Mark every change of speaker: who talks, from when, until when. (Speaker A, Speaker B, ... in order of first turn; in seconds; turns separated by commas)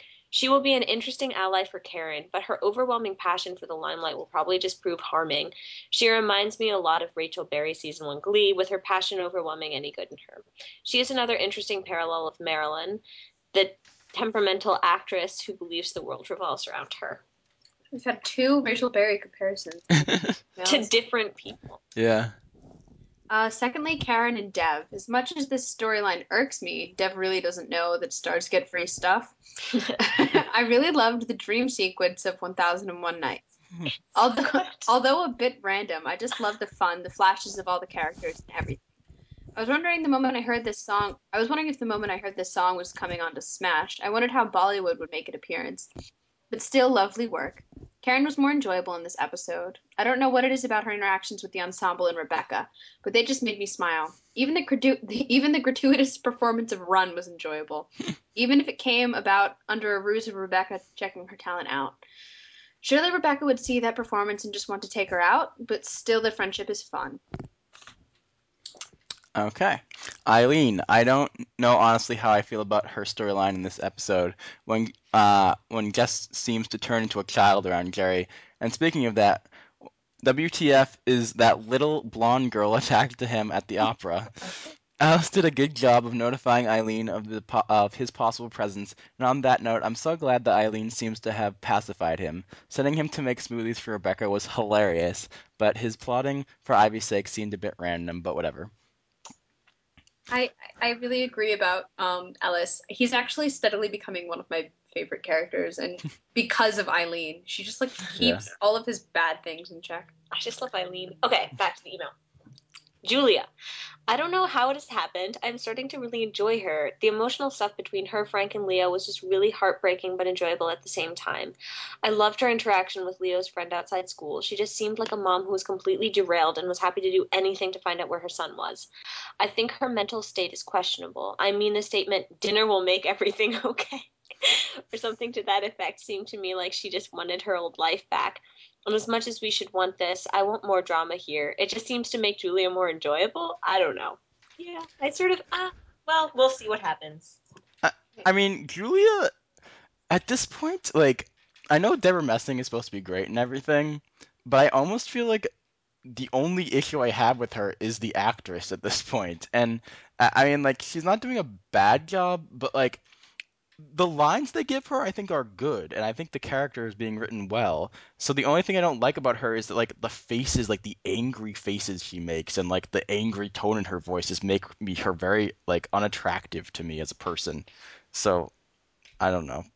Speaker A: 0.3-17.2, Speaker B: 17.9-20.0, Speaker C: 20.1-20.4, Speaker B: 20.6-20.9, Speaker A: 20.7-21.8, Speaker C: 21.9-22.4, Speaker B: 23.3-29.4, Speaker B: 29.9-33.5, Speaker B: 34.1-38.8, Speaker B: 39.5-45.9, Speaker B: 46.5-62.0, Speaker B: 62.8-67.2, Speaker C: 69.3-79.5, Speaker C: 80.2-84.3, Speaker C: 85.0-98.7, Speaker B: 100.3-110.1, Speaker C: 108.2-108.4, Speaker A: 110.3-112.1, Speaker A: 113.0-113.5, Speaker A: 114.1-128.9, Speaker A: 129.4-147.4, Speaker C: 147.8-149.3, Speaker C: 150.1-155.5, Speaker C: 156.1-163.0, Speaker C: 163.8-178.5, Speaker C: 179.2-179.7